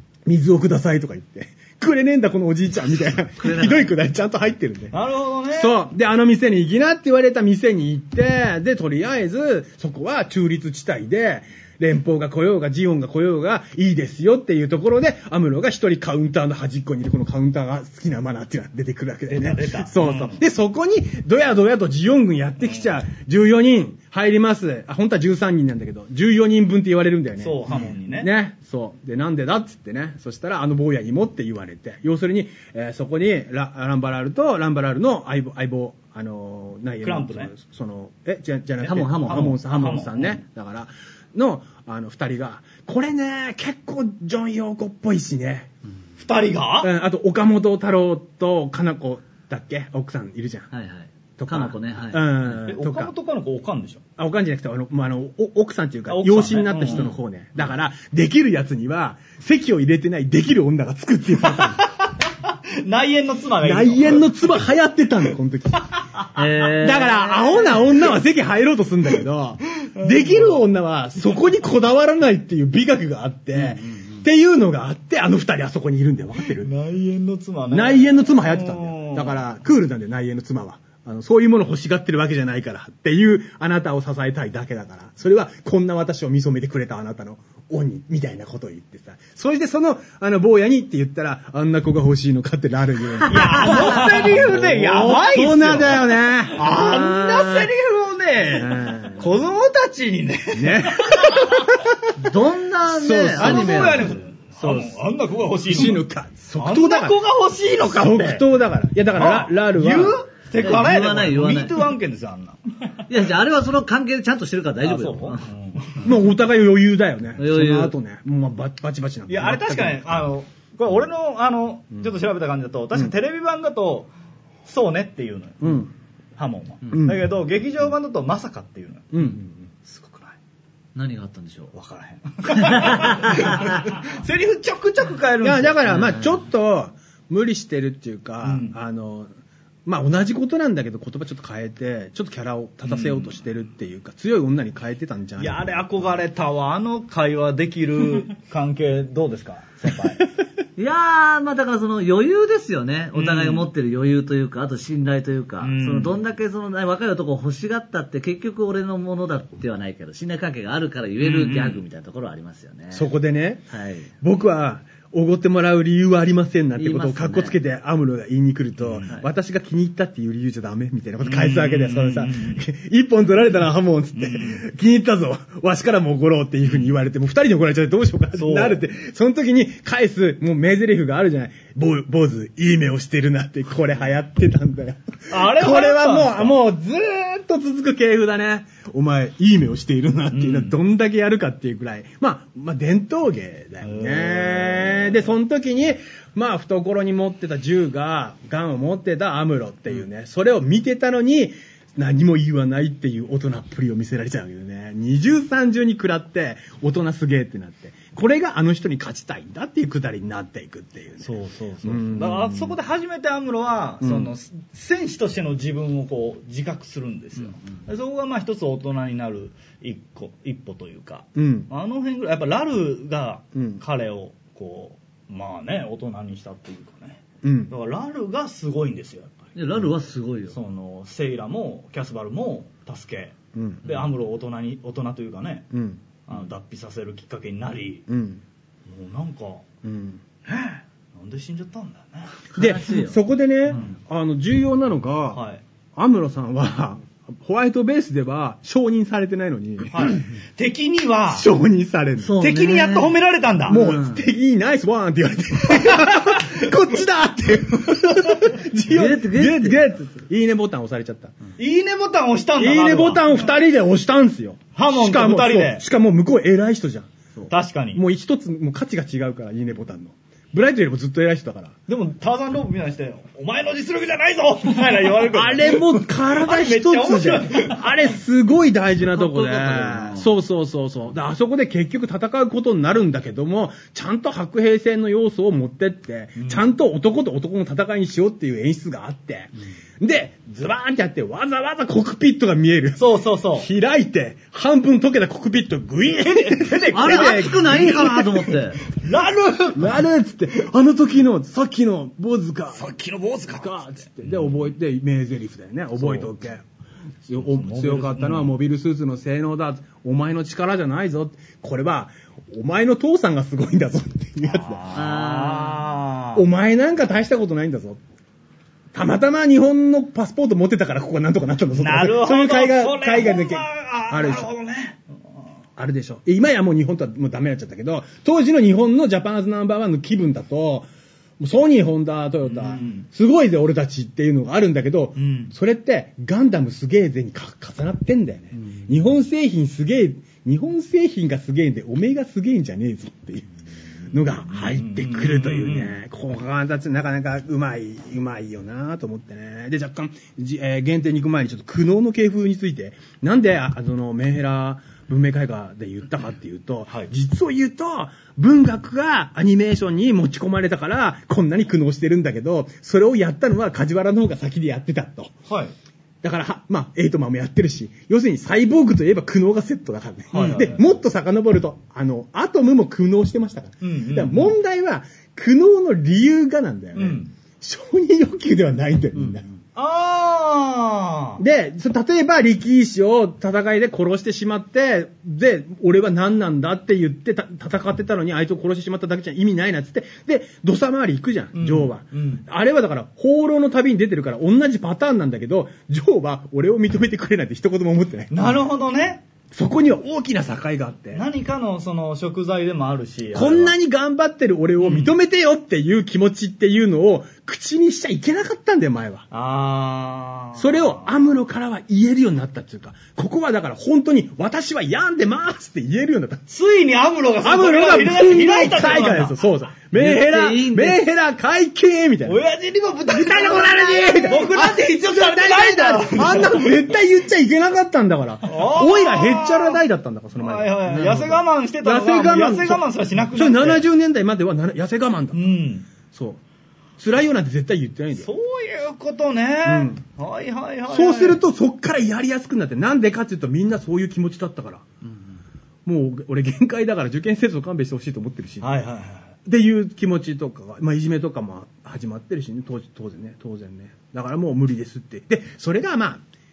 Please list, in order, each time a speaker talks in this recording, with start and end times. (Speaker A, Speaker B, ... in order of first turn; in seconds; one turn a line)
Speaker A: 0.2-5.0
Speaker B: 3.4-3.9
Speaker C: 4.9-5.8
Speaker A: 5.5-45.7
Speaker C: 19.3-20.4
Speaker C: 27.4-28.3
Speaker C: 37.0-37.5
Speaker B: 38.8-39.6
Speaker C: 39.1-40.4
Speaker C: 46.2-46.9
Speaker A: 46.8-50.7
Speaker B: 50.7-52.4
Speaker A: 51.4-53.1
Speaker C: 52.6-54.0
Speaker A: 54.2-61.8
Speaker C: 56.1-57.1
Speaker C: 61.5-64.4
Speaker A: 63.6-65.9
Speaker B: 66.3-67.8
Speaker A: 66.7-76.7
Speaker C: 69.8-70.6
Speaker B: 73.6-74.2
Speaker C: 76.6-79.4
Speaker A: 77.7-97.7
Speaker C: 93.3-101.7
Speaker B: 93.7-94.1
Speaker A: 98.5-99.3
Speaker A: 100.5-102.3
Speaker B: 102.2-104.2
Speaker A: 102.9-105.0
Speaker C: 103.3-106.0
Speaker A: 105.6-107.2
Speaker C: 106.6-108.5
Speaker A: 107.9-110.2
Speaker C: 109.1-113.0
Speaker B: 110.6-111.9
Speaker B: 113.1-115.5
Speaker C: 114.8-116.1
Speaker A: 116.0-120.0
Speaker B: 117.4-117.9
Speaker C: 119.3-124.1
Speaker C: 124.7-125.8
Speaker A: 125.6-125.9
Speaker C: 126.4-129.1
Speaker A: 126.9-127.2
Speaker A: 129.1-129.7
Speaker C: 129.8-130.4
Speaker B: 130.9-131.7
Speaker C: 131.7-136.1
Speaker B: 132.6-133.7
Speaker A: 135.4-139.3
Speaker B: 135.9-136.3
Speaker C: 138.4-138.8
Speaker A: 139.9-146.2
Speaker C: 142.9-143.3
Speaker C: 145.4-150.3
Speaker B: 150.8-163.1
Speaker C: 153.1-153.7
Speaker C: 155.6-156.2
Speaker C: 161.2-161.8
Speaker A: 162.9-163.7
Speaker B: 163.7-164.1
Speaker A: 164.2-211.3
Speaker B: 166.8-167.6
Speaker C: 168.8-169.1
Speaker C: 171.2-172.6
Speaker C: 174.2-174.6
Speaker C: 178.3-178.8
Speaker C: 185.3-186.6
Speaker C: 190.3-190.8
Speaker C: 193.8-195.2
Speaker C: 211.2-229.4
Speaker A: 211.8-212.8
Speaker A: 214.0-214.3
Speaker A: 221.3-221.7
Speaker A: 223.6-223.8
Speaker A: 227.4-227.7
Speaker B: 229.6-230.6
Speaker C: 230.5-235.7
Speaker A: 233.5-234.1
Speaker A: 235.7-236.0
Speaker C: 236.3-238.1
Speaker A: 238.1-238.4
Speaker C: 238.9-239.7
Speaker A: 239.8-240.2
Speaker C: 240.4-242.4
Speaker B: 242.5-243.2
Speaker A: 242.6-245.4
Speaker C: 245.3-245.6
Speaker A: 245.9-250.2
Speaker C: 249.9-251.5
Speaker A: 251.3-252.4
Speaker B: 252.2-253.2
Speaker C: 252.4-253.8
Speaker A: 253.7-261.4
Speaker B: 253.7-254.2
Speaker C: 255.8-256.5
Speaker B: 258.9-259.8
Speaker C: 261.6-263.4
Speaker A: 262.6-271.8
Speaker C: 264.8-265.9
Speaker C: 267.5-268.0
Speaker C: 271.9-278.1
Speaker A: 275.3-298.1
Speaker B: 279.1-280.3
Speaker C: 286.4-286.7
Speaker C: 293.0-293.7
Speaker C: 296.2-300.0
Speaker B: 296.9-298.8
Speaker A: 299.8-302.9
Speaker C: 302.7-304.7
Speaker A: 303.5-306.6
Speaker C: 306.0-306.3
Speaker A: 307.3-314.8
Speaker C: 307.3-308.5
Speaker C: 314.4-316.4
Speaker B: 314.9-315.9
Speaker A: 316.4-318.0
Speaker A: 318.9-324.5
Speaker C: 321.8-325.1
Speaker A: 325.8-330.9
Speaker A: 331.4-343.5
Speaker C: 332.4-333.1
Speaker C: 335.2-335.5
Speaker C: 344.1-346.0
Speaker A: 344.1-365.3
Speaker C: 365.5-365.7
Speaker A: 366.2-379.5
Speaker C: 370.3-370.9
Speaker C: 373.8-374.6
Speaker C: 376.9-377.3
Speaker C: 379.8-381.4
Speaker A: 381.4-398.4
Speaker C: 391.5-392.4
Speaker C: 398.3-399.2
Speaker A: 399.5-401.3
Speaker C: 401.1-403.7
Speaker A: 403.3-409.3
Speaker C: 404.8-405.1
Speaker C: 409.3-411.1
Speaker A: 410.6-416.5
Speaker C: 416.5-419.4
Speaker A: 417.4-422.4
Speaker B: 419.9-421.0
Speaker C: 422.2-426.8
Speaker A: 423.1-430.8
Speaker C: 428.4-429.8
Speaker C: 430.4-433.9
Speaker B: 430.9-431.4
Speaker A: 431.8-435.6
Speaker C: 435.3-435.9
Speaker A: 436.1-436.4
Speaker A: 437.0-438.3
Speaker C: 438.2-441.4
Speaker A: 439.6-440.0
Speaker A: 440.9-444.9
Speaker A: 445.9-448.8
Speaker C: 448.6-449.4
Speaker A: 449.5-456.2